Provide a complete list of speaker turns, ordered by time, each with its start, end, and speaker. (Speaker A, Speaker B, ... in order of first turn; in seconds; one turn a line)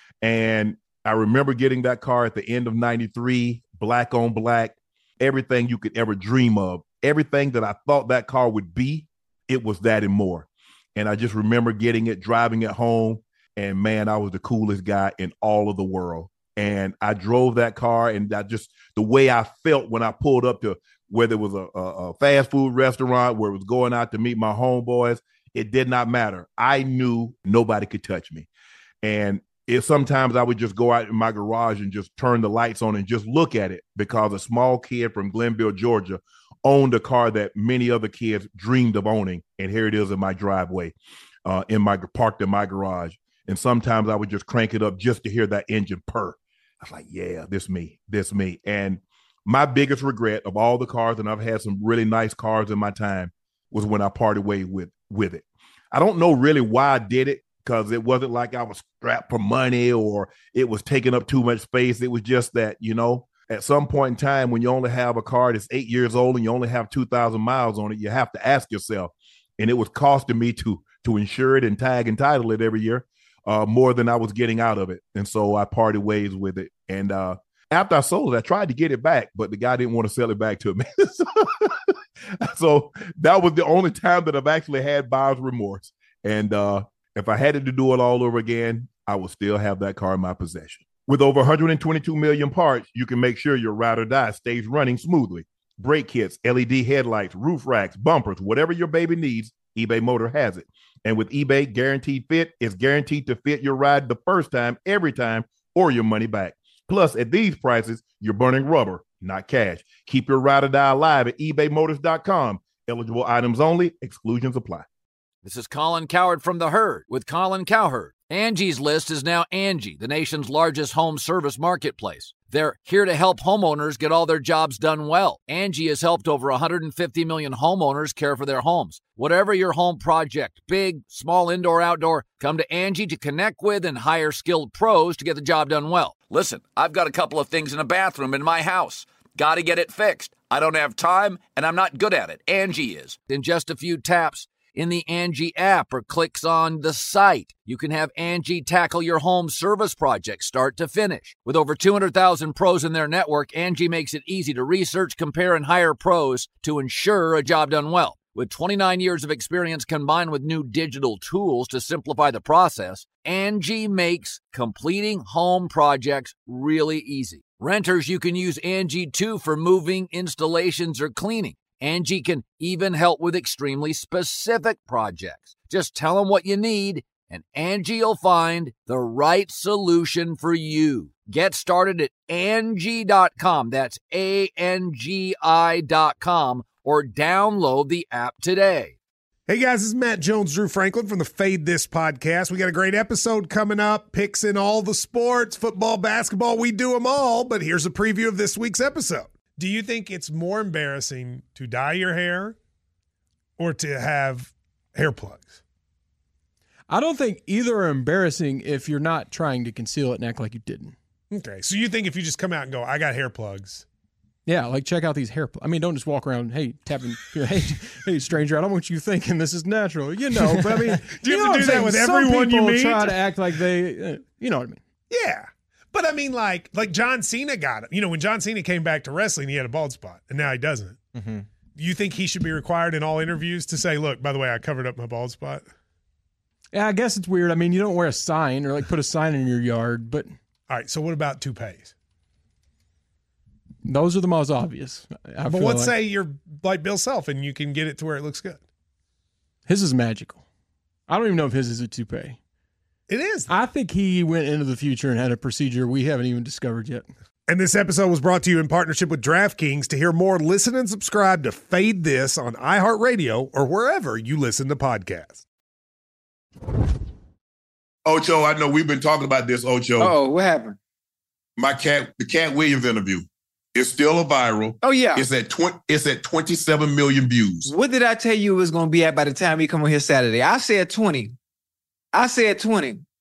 Speaker A: 0.2-28.5
Speaker A: 29.0-114.9
Speaker B: 115.4-188.9
Speaker C: 189.5-202.6
Speaker C: 203.6-205.6
Speaker D: 206.9-211.0
Speaker C: 211.3-213.8
Speaker D: 214.4-224.8
Speaker C: 220.3-223.2
Speaker C: 225.1-231.0
Speaker D: 231.1-231.4
Speaker C: 231.8-235.7
Speaker D: 236.7-240.4
Speaker C: 240.7-241.9
Speaker D: 243.8-246.0
Speaker C: 245.4-248.6
Speaker D: 249.7-250.4
Speaker D: 251.1-252.4
Speaker C: 253.1-253.5
Speaker D: 253.5-257.1
Speaker C: 257.5-265.4
Speaker A: 268.0-270.1
Speaker E: 270.0-270.8
Speaker A: 271.6-277.7
Speaker E: 274.8-275.2
Speaker E: 277.6-281.3
Speaker E: 282.1-283.0